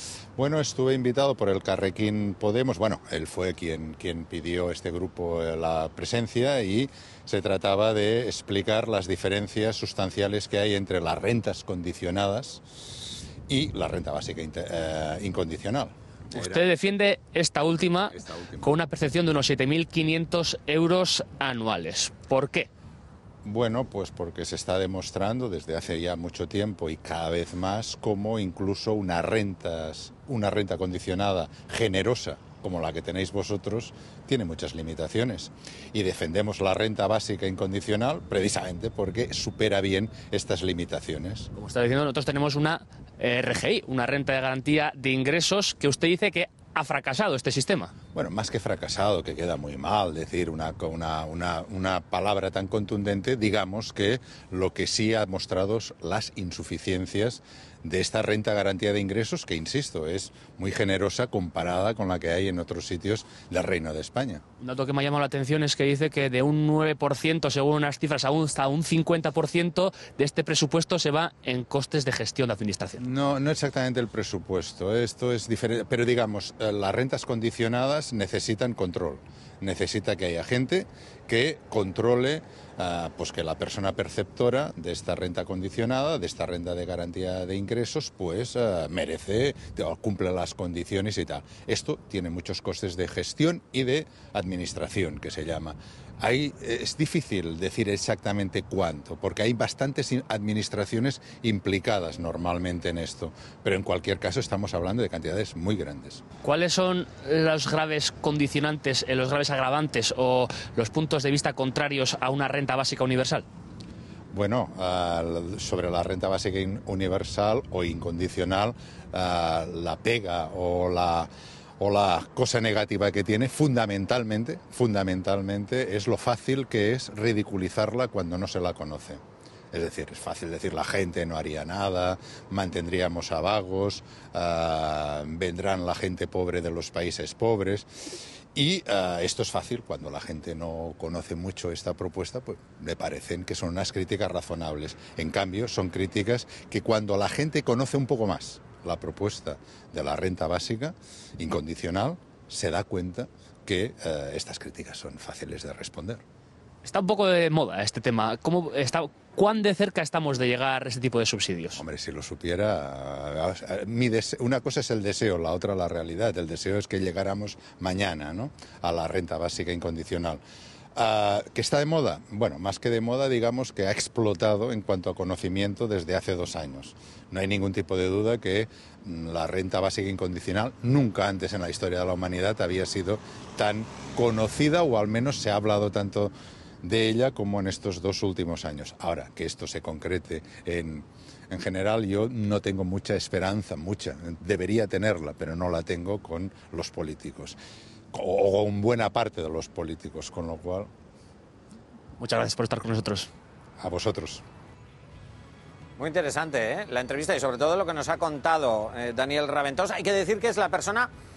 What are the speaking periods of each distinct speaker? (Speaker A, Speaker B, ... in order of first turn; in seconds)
Speaker A: 0.4-12.6, 13.5-16.7, 18.1-18.8, 23.4-41.5, 48.1-64.4, 73.0-106.2, 114.3-156.2, 161.7-170.4, 170.9-197.6, 198.1-200.9, 203.8-204.4
Speaker B: 16.3-22.7, 41.5-47.9, 64.6-73.0, 106.4-113.4, 156.8-161.8, 202.2-203.3
Speaker C: 206.0-211.1